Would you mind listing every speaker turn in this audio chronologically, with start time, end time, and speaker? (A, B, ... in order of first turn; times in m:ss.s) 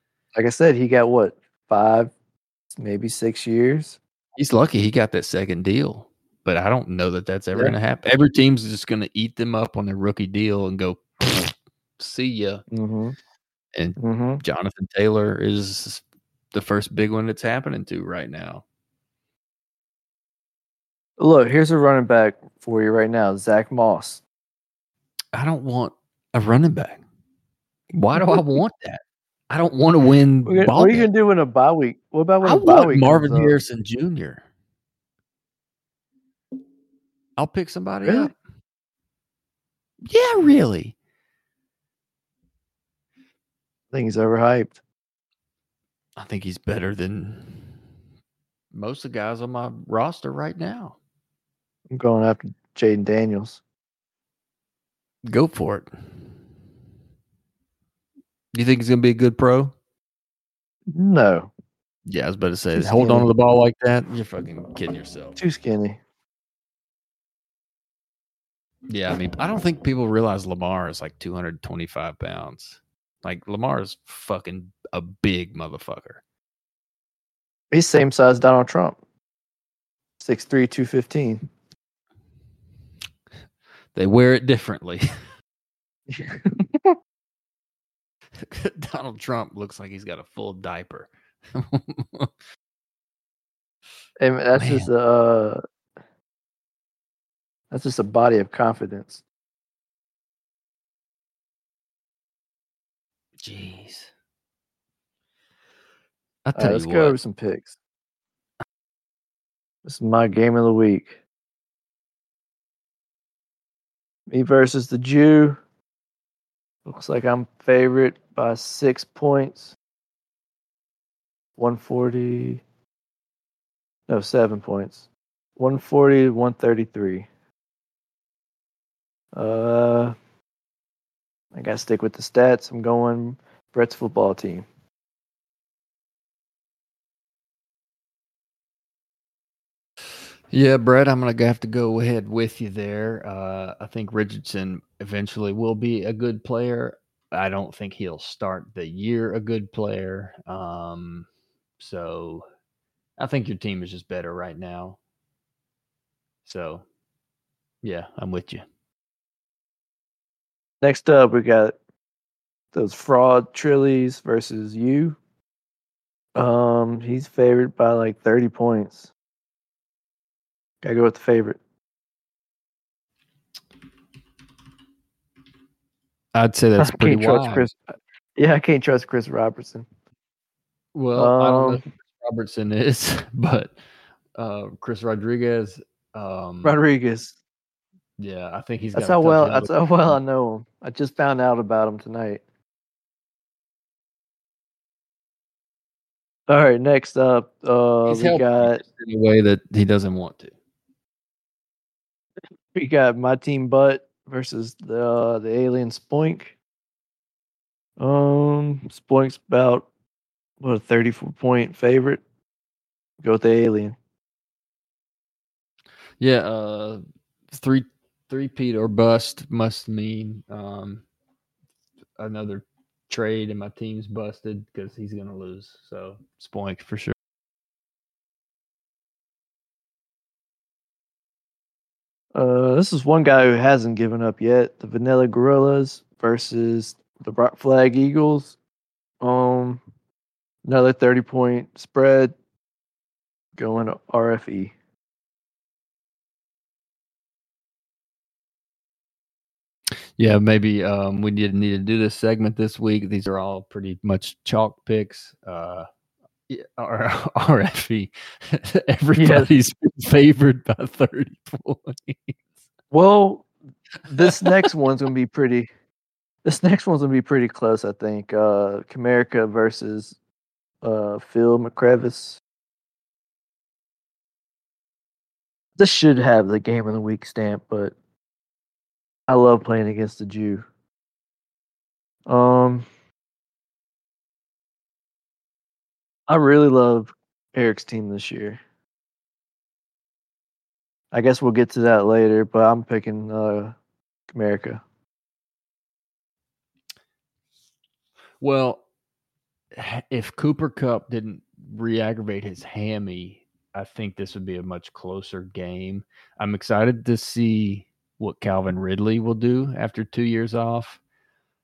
0:00.3-0:02.1 A
0:02.7-0:04.0 A
0:04.4-0:12.6 B
0:12.7-0:13.2 A
0:13.7-0:18.6 B
0:14.0-0:14.4 A
0:21.2-0:24.2 A
0:25.3-0:27.0 B
0:27.9-0:31.1 B
0:28.2-0:28.4 A
0:30.4-0:33.5 A
0:32.4-0:34.4 B
0:37.4-0:38.3 B
0:38.0-0:38.3 A
0:40.0-0:40.9 B
0:43.9-0:44.8 A
0:46.2-0:47.8 B
0:48.7-0:51.0 B
0:51.9-0:53.6 A
0:55.2-0:55.9 B
0:58.5-0:59.7 B
1:00.9-1:01.5 A
1:02.0-1:05.4 B
1:02.8-1:03.3 A
1:05.4-1:06.0 A
1:08.9-1:16.2 B
1:17.7-1:19.0 A
1:20.2-1:21.4 A
1:23.9-1:25.1 B
1:26.1-1:26.9 A
1:28.4-1:32.3 B
1:34.2-1:35.6 A
1:34.6-1:34.9 B
1:37.7-1:39.2 A
1:43.4-1:44.1 B
1:46.4-1:47.2 B
1:46.6-1:47.7 A
1:49.8-1:51.2 A
1:54.3-1:55.6 A
1:56.8-1:59.7 A
2:01.6-2:02.6 A
2:04.1-2:05.0 A
2:05.6-2:07.3 A
2:09.3-2:10.1 A
2:11.5-2:14.6 A
2:20.5-2:31.3 B
2:31.8-2:32.4 B
2:33.2-2:35.0 B
2:36.4-2:36.8 B
2:37.8-2:38.6 B
2:40.8-2:41.8 A
2:42.7-2:45.2 A
2:46.3-2:49.1 A
2:50.8-2:51.6 A
2:56.3-2:57.7 B
2:56.8-2:59.8 A
3:00.9-3:03.8 B
3:01.1-3:01.8 A
3:04.3-3:06.8 B
3:06.6-3:07.4 A
3:08.2-3:10.2 B
3:08.9-3:12.4 A
3:16.5-3:18.8 A
3:18.1-3:20.5 B
3:22.7-3:26.5 A
3:28.0-3:29.9 A
3:30.6-3:32.2 A
3:33.2-3:34.0 A
3:36.2-3:41.0 B
3:42.2-3:47.1 B
3:52.3-3:58.6 A
3:59.2-3:59.8 A
4:00.6-4:02.3 A
4:03.6-4:04.7 A
4:10.2-4:15.8 B
4:16.5-4:22.4 B
4:19.2-4:19.5 A
4:22.9-4:23.5 A
4:24.1-4:25.7 A
4:26.4-4:30.2 A
4:30.8-4:32.4 A
4:35.8-4:37.9 A
4:39.3-4:40.6 A
4:42.3-4:42.8 A
4:46.3-4:48.6 A
4:51.1-4:53.7 A
4:54.3-4:54.8 A
4:58.4-4:58.8 B
4:59.7-5:11.0 B